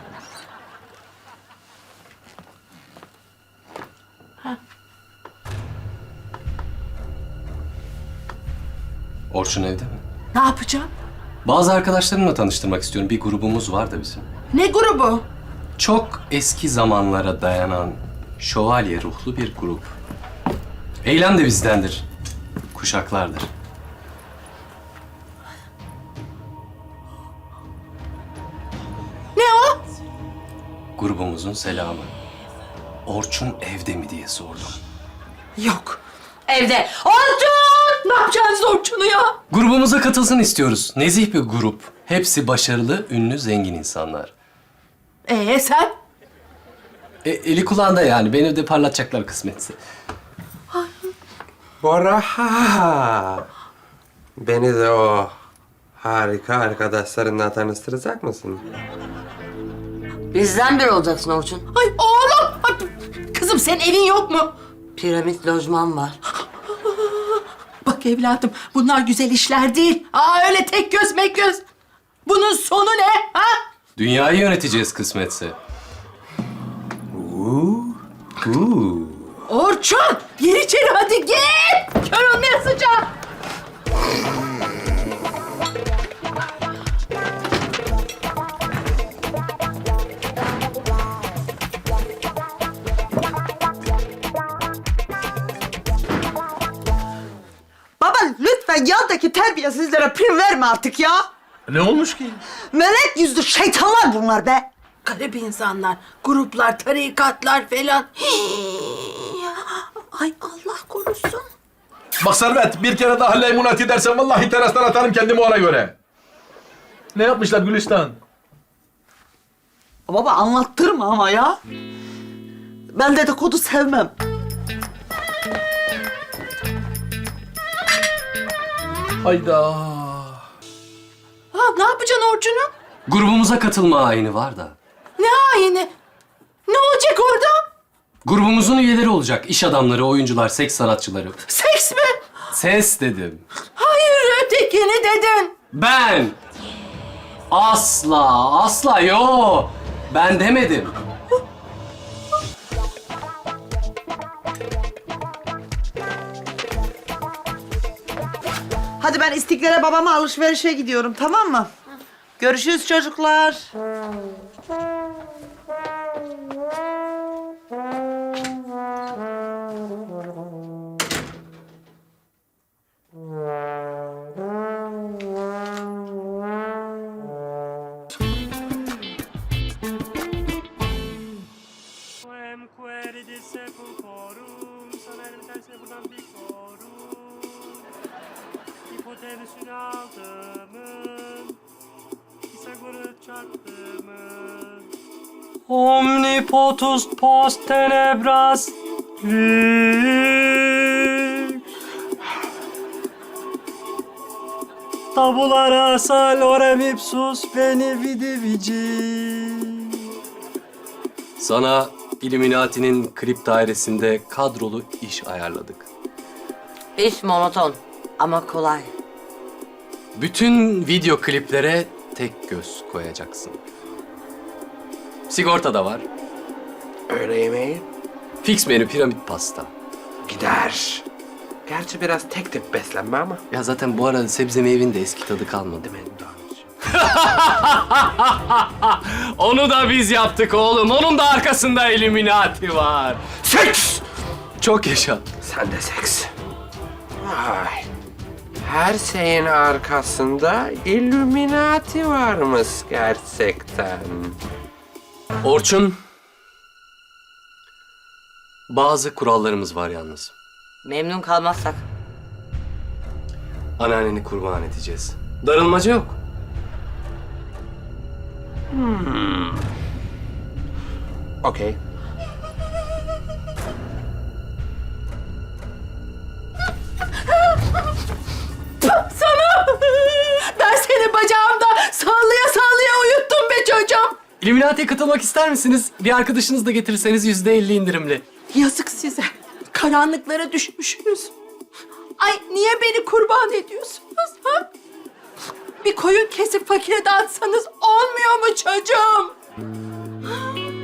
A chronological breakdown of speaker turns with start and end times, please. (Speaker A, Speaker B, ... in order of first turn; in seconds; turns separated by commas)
Speaker A: 9.3-10.0, Speaker B: 10.3-10.9, Speaker A: 11.4-14.3, Speaker B: 14.5-15.3, Speaker A: 15.8-19.9, Speaker A: 21.0-22.1, Speaker A: 22.7-23.5, Speaker B: 29.4-29.8, Speaker A: 31.0-32.1, Speaker A: 33.1-34.8, Speaker C: 36.5-38.0, Speaker B: 38.0-39.4, Speaker A: 39.5-44.3, Speaker B: 45.3-46.0, Speaker A: 47.2-49.8, Speaker B: 50.7-51.1, Speaker D: 51.8-53.5, Speaker D: 54.4-55.3, Speaker D: 56.0-58.6, Speaker C: 60.3-61.6, Speaker B: 61.7-64.5, Speaker C: 65.0-66.2, Speaker B: 66.9-71.6, Speaker B: 72.3-73.6, Speaker A: 74.0-75.6, Speaker A: 77.1-79.3, Speaker B: 79.5-83.1, Speaker E: 98.0-101.3, Speaker F: 101.7-102.4, Speaker E: 102.7-104.7, Speaker B: 105.0-111.5, Speaker F: 112.2-116.0, Speaker F: 117.1-118.2, Speaker E: 120.1-121.6, Speaker E: 122.9-124.1, Speaker F: 129.2-130.4, Speaker B: 131.5-132.7, Speaker A: 133.1-134.8, Speaker B: 135.2-135.9, Speaker B: 136.7-137.7, Speaker A: 138.2-141.4, Speaker B: 141.5-142.2, Speaker A: 142.5-143.4, Speaker B: 143.8-145.6, Speaker A: 145.7-146.4, Speaker A: 147.5-150.9, Speaker E: 159.0-161.7, Speaker E: 162.4-163.7, Speaker G: 192.7-193.5, Speaker G: 195.7-201.2, Speaker G: 205.2-209.9, Speaker A: 211.4-215.9, Speaker C: 217.0-218.9, Speaker A: 220.2-223.6, Speaker A: 225.3-226.1, Speaker D: 227.1-227.8, Speaker A: 228.4-229.7, Speaker D: 230.3-231.1, Speaker D: 231.7-233.4, Speaker A: 233.5-244.0, Speaker A: 244.6-245.2, Speaker D: 245.4-246.3, Speaker D: 247.2-247.9, Speaker D: 248.6-254.4, Speaker A: 255.4-256.0, Speaker A: 258.7-260.3, Speaker C: 260.9-261.8, Speaker A: 263.8-266.2, Speaker D: 268.7-269.6, Speaker D: 271.4-271.8, Speaker B: 278.8-284.2, Speaker A: 284.4-288.2, Speaker B: 288.5-291.3, Speaker B: 292.2-294.7, Speaker B: 295.8-299.3